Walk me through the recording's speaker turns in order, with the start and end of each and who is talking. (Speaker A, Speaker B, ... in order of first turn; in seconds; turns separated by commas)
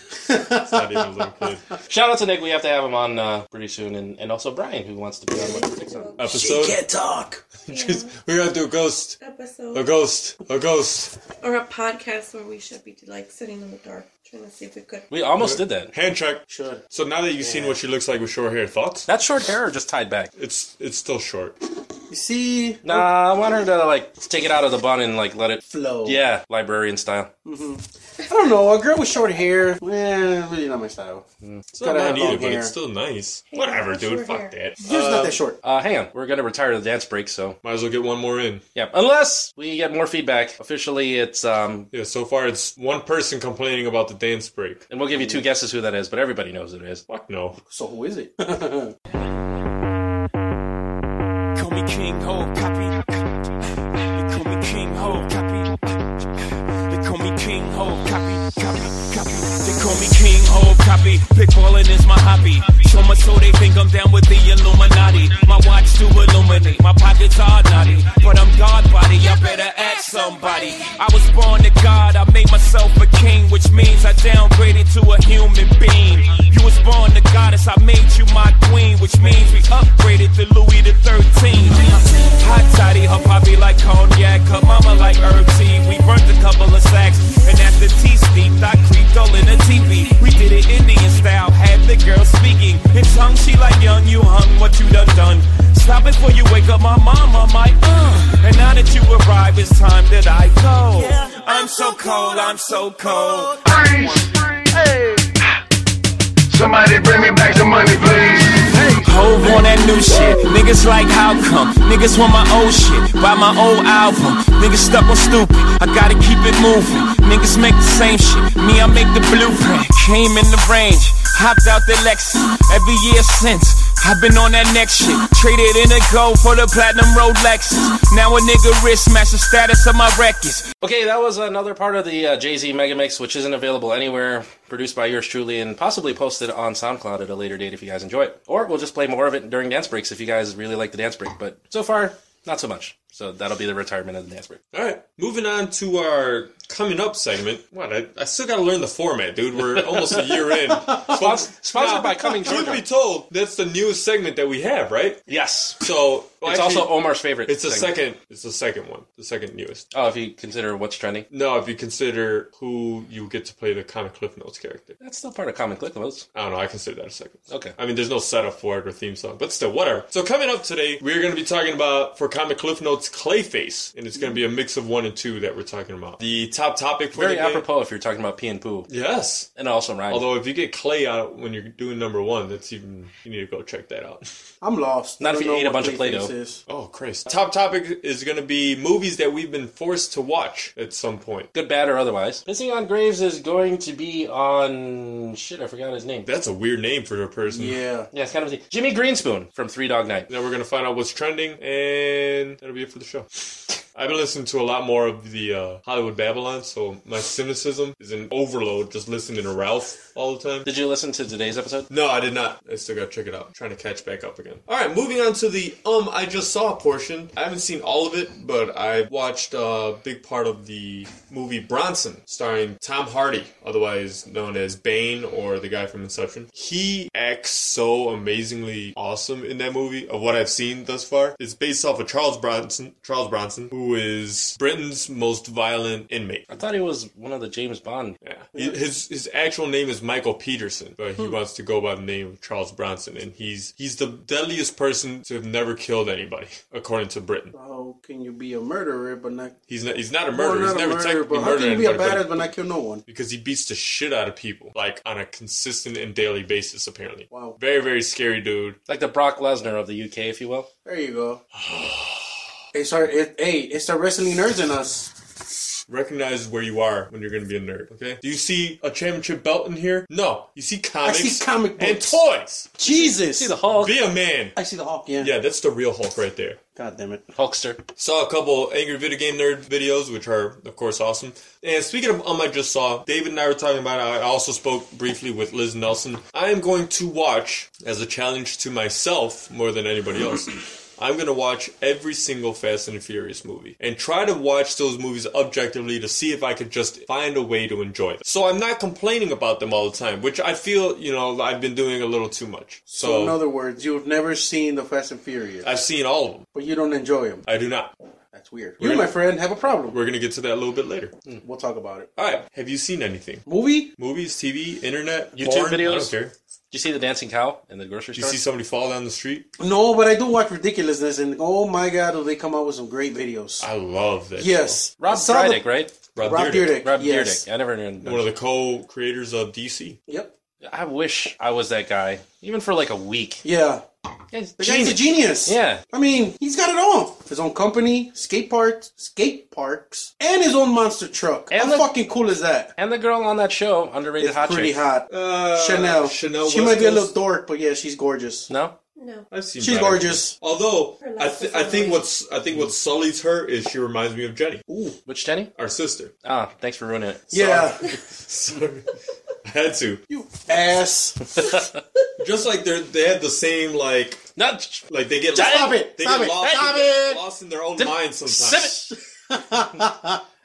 Speaker A: 0.3-1.6, Speaker B: 0.3-0.8, Speaker C: 1.9-6.1, Speaker D: 5.3-6.4, Speaker A: 6.2-6.9, Speaker B: 6.4-7.4, Speaker A: 7.6-9.2, Speaker D: 7.7-8.1, Speaker D: 9.2-9.8, Speaker A: 9.7-11.1, Speaker D: 11.4-15.1, Speaker C: 15.1-15.9, Speaker A: 15.4-19.1, Speaker B: 16.5-16.8, Speaker B: 17.4-17.8, Speaker C: 19.1-20.3, Speaker A: 20.4-21.6, Speaker B: 22.1-23.1, Speaker C: 22.8-27.3, Speaker B: 25.7-26.2, Speaker B: 27.4-31.2, Speaker A: 31.7-35.4, Speaker B: 31.8-32.7, Speaker D: 33.5-34.5, Speaker B: 34.8-35.6, Speaker C: 35.6-37.6, Speaker A: 37.6-38.6, Speaker C: 38.7-41.9, Speaker A: 41.9-44.8, Speaker C: 44.9-47.0, Speaker B: 45.1-45.4, Speaker A: 47.1-47.6, Speaker B: 47.7-48.9, Speaker E: 51.5-53.4, Speaker E: 54.0-56.0, Speaker E: 56.8-103.8, Speaker F: 103.6-105.3, Speaker F: 106.5-109.1, Speaker E: 107.6-130.7, Speaker C: 130.8-144.6, Speaker A: 144.7-155.2, Speaker C: 149.6-150.4, Speaker C: 151.0-152.8, Speaker C: 155.3-155.8, Speaker A: 155.8-159.8, Speaker C: 156.4-157.9, Speaker C: 159.9-161.2, Speaker A: 161.3-165.0, Speaker C: 165.0-166.2, Speaker A: 166.3-177.6, Speaker C: 167.5-167.7, Speaker C: 177.1-178.9, Speaker A: 178.9-179.5, Speaker C: 179.6-180.2, Speaker A: 180.1-184.2, Speaker B: 184.6-186.6, Speaker C: 185.2-186.3, Speaker A: 186.7-191.5, Speaker C: 191.5-196.3, Speaker A: 196.2-197.8, Speaker B: 197.5-198.1, Speaker C: 198.1-200.3, Speaker A: 200.3-203.3, Speaker A: 203.9-210.7, Speaker C: 210.7-211.9, Speaker A: 211.9-236.5, Speaker C: 236.5-238.2, Speaker A: 238.2-247.5, Speaker B: 247.5-249.6, Speaker A: 249.7-252.5, Speaker B: 250.3-253.0, Speaker A: 253.1-258.8, Speaker B: 257.3-257.6, Speaker C: 258.9-260.7, Speaker B: 260.8-261.4, Speaker A: 261.5-262.3, Speaker B: 262.7-265.1, Speaker A: 265.9-272.7, Speaker B: 271.0-272.2, Speaker B: 272.8-273.5, Speaker C: 272.8-273.9, Speaker A: 273.7-274.6, Speaker B: 274.6-275.3, Speaker A: 275.2-276.6, Speaker B: 276.8-277.2, Speaker C: 277.3-277.8, Speaker A: 278.0-303.4, Speaker B: 302.9-305.7, Speaker A: 305.6-306.4, Speaker B: 306.5-307.4, Speaker A: 307.4-307.9, Speaker B: 308.3-310.0, Speaker A: 308.8-309.2, Speaker A: 309.9-311.1, Speaker B: 311.4-312.1, Speaker A: 312.1-313.4, Speaker B: 313.4-313.9, Speaker A: 314.0-316.3, Speaker C: 315.3-316.1, Speaker C: 316.7-318.4, Speaker A: 318.1-319.5, Speaker B: 319.6-323.7, Speaker A: 323.6-324.8, Speaker B: 324.4-325.7, Speaker C: 325.0-325.9, Speaker A: 326.1-326.8, Speaker B: 326.2-327.4, Speaker C: 326.8-328.2, Speaker A: 328.0-330.0, Speaker B: 330.1-330.3, Speaker C: 330.6-333.4, Speaker B: 333.4-333.8, Speaker C: 334.3-335.8, Speaker B: 334.6-342.7, Speaker C: 341.5-341.9, Speaker C: 342.8-344.8, Speaker B: 344.2-348.5, Speaker A: 345.1-347.1, Speaker C: 348.5-348.7, Speaker D: 348.9-349.3, Speaker A: 349.3-354.6, Speaker B: 349.6-350.3, Speaker D: 351.0-352.1, Speaker B: 354.7-355.0, Speaker C: 355.1-355.5, Speaker A: 355.6-356.1, Speaker C: 356.2-357.4, Speaker B: 357.3-358.0, Speaker A: 357.3-358.9, Speaker A: 359.4-360.0, Speaker B: 360.1-361.4, Speaker A: 362.2-364.2, Speaker C: 364.4-364.8, Speaker A: 364.9-368.9, Speaker B: 365.3-366.7, Speaker C: 365.4-365.7, Speaker C: 366.4-367.2, Speaker C: 367.8-368.9, Speaker B: 369.3-370.2